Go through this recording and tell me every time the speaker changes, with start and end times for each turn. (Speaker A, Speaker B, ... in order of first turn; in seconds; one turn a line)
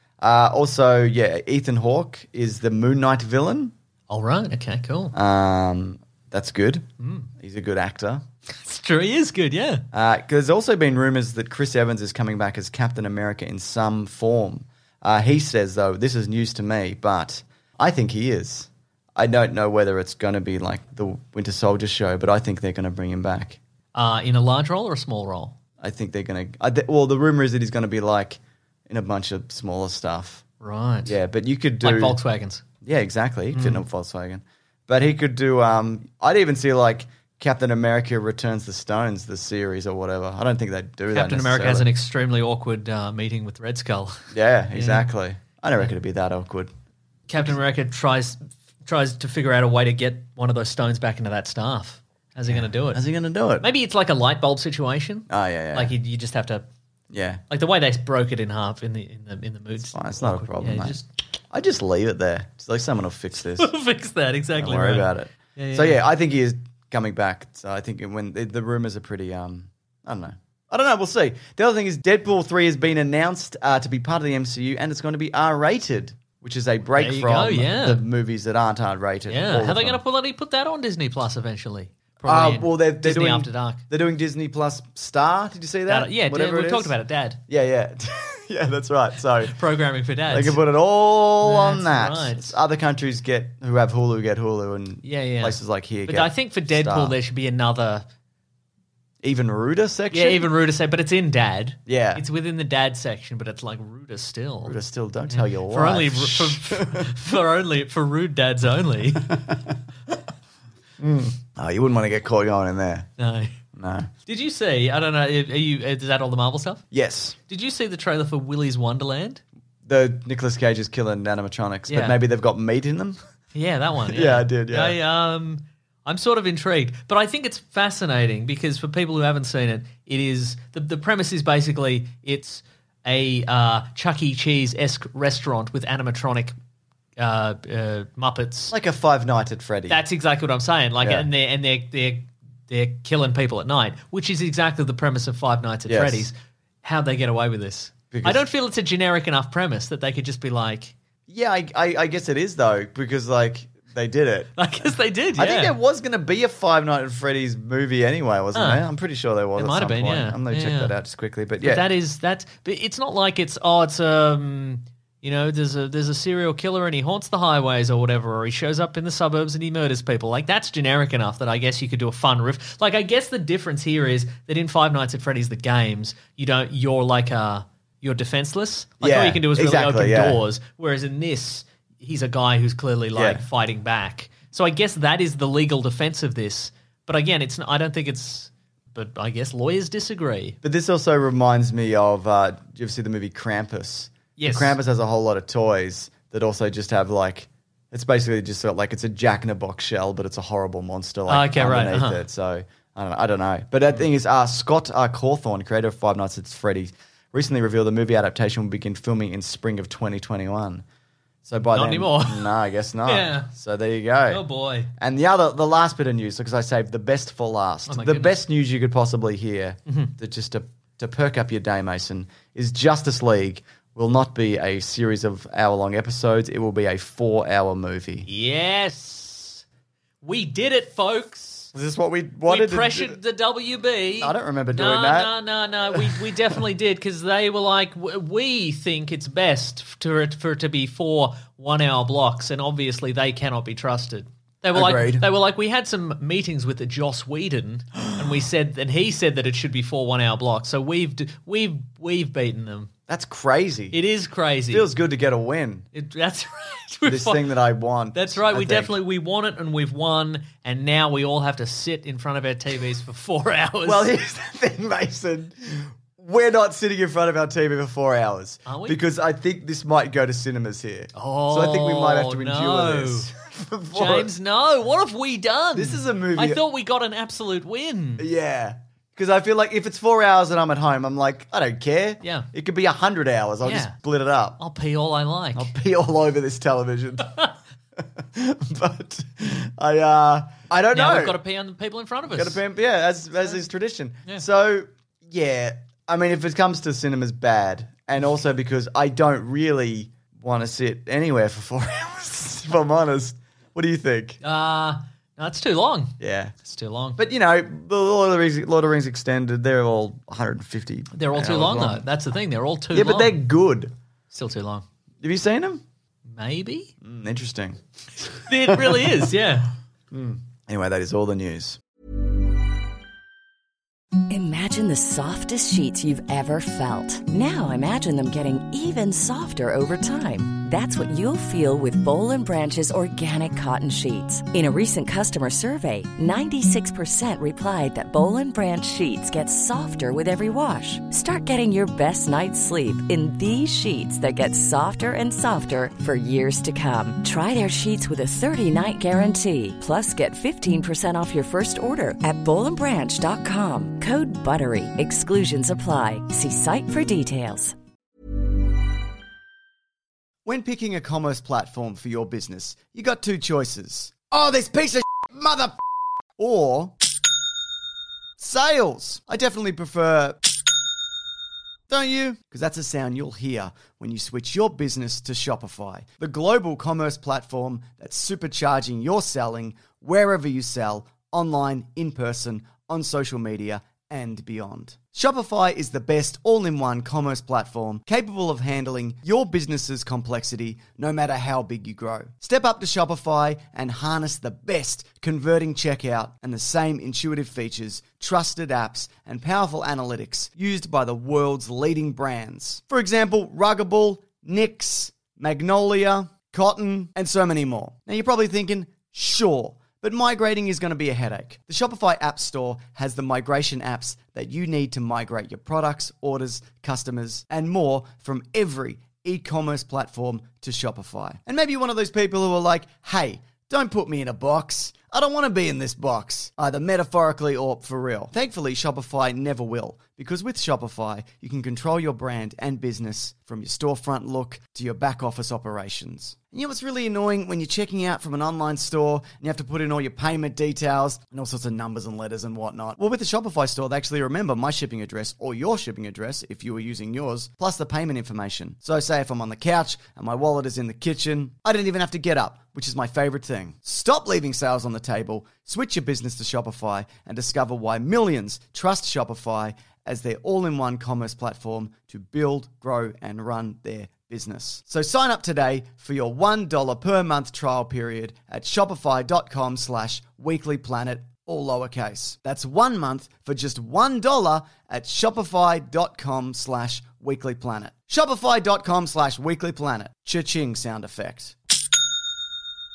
Speaker A: 0.2-3.7
Speaker B: 4.1-5.2
Speaker A: 5.1-6.9
Speaker B: 7.0-7.3
Speaker A: 7.4-8.2
Speaker B: 8.6-9.8
Speaker A: 9.9-23.6
Speaker B: 23.9-25.6
Speaker A: 25.8-30.4
Speaker B: 30.6-31.2
Speaker A: 31.1-32.2
Speaker B: 31.8-32.6
Speaker A: 32.8-41.9
Speaker B: 33.5-33.8
Speaker B: 41.1-45.1
Speaker A: 44.3-46.7
Speaker B: 47.3-53.0
Speaker A: 52.5-53.7
Speaker B: 53.6-56.6
Speaker A: 55.3-55.9
Speaker A: 57.1-57.4
Speaker B: 57.5-61.1
Speaker A: 59.9-61.0
Speaker A: 61.5-63.7
Speaker B: 63.6-66.0
Speaker A: 64.6-80.0
Speaker B: 77.0-78.0
Speaker B: 79.3-83.8
Speaker A: 82.2-87.0
Speaker B: 85.9-87.4
Speaker A: 87.5-89.5
Speaker B: 89.4-90.6
Speaker A: 90.3-97.2
Speaker B: 91.4-92.6
Speaker B: 95.0-98.0
Speaker A: 99.2-100.5
Speaker B: 100.1-104.8
Speaker A: 101.9-102.2
Speaker A: 104.6-107.3
Speaker B: 105.3-109.6
Speaker A: 109.3-109.7
Speaker A: 111.0-113.1
Speaker B: 113.2-113.6
Speaker A: 113.7-114.1
Speaker B: 114.3-116.8
Speaker A: 116.9-117.4
Speaker B: 117.5-119.4
Speaker A: 119.9-123.2
Speaker B: 121.9-122.2
Speaker B: 123.5-136.5
Speaker A: 124.1-125.0
Speaker B: 137.2-138.7
Speaker A: 138.7-140.0
Speaker B: 139.9-150.9
Speaker A: 141.0-141.3
Speaker A: 145.9-146.3
Speaker A: 148.1-148.4
Speaker A: 151.3-154.6
Speaker B: 154.6-155.7
Speaker A: 155.4-161.9
Speaker B: 158.5-158.9
Speaker B: 159.6-160.9
Speaker B: 161.6-190.6
Speaker A: 179.0-180.4
Speaker A: 183.1-183.4
Speaker A: 190.6-210.8
Speaker B: 194.4-194.8
Speaker B: 201.3-202.2
Speaker A: 211.4-214.4
Speaker B: 211.7-212.5
Speaker B: 213.1-213.5
Speaker B: 214.3-214.9
Speaker A: 215.0-228.3
Speaker B: 217.9-218.4
Speaker B: 219.9-220.1
Speaker B: 228.3-229.6
Speaker B: 230.2-231.7
Speaker A: 231.7-233.2
Speaker B: 232.5-252.9
Speaker A: 234.2-235.3
Speaker A: 235.9-236.3
Speaker A: 244.7-245.3
Speaker A: 253.1-254.0
Speaker B: 253.9-254.9
Speaker A: 254.7-255.9
Speaker B: 255.9-257.6
Speaker A: 257.1-258.9
Speaker B: 258.1-264.1
Speaker A: 263.8-274.3
Speaker B: 268.7-269.0
Speaker B: 271.2-273.3
Speaker B: 273.9-278.3
Speaker A: 275.8-276.6
Speaker A: 278.2-284.6
Speaker B: 283.6-283.9
Speaker B: 284.6-285.7
Speaker A: 285.6-287.4
Speaker A: 288.0-291.4
Speaker B: 290.9-292.6
Speaker A: 292.3-304.4
Speaker B: 304.4-307.2
Speaker A: 306.2-306.6
Speaker A: 307.2-312.1
Speaker B: 311.1-313.4
Speaker A: 312.9-313.9
Speaker B: 314.3-314.9
Speaker A: 315.2-315.8
Speaker B: 316.3-316.9
Speaker A: 317.0-319.3
Speaker B: 318.4-319.7
Speaker A: 320.1-321.8
Speaker C: 324.3-357.8
Speaker A: 360.4-365.8
Speaker A: 366.4-366.9
Speaker A: 368.4-370.4
Speaker A: 371.9-481.6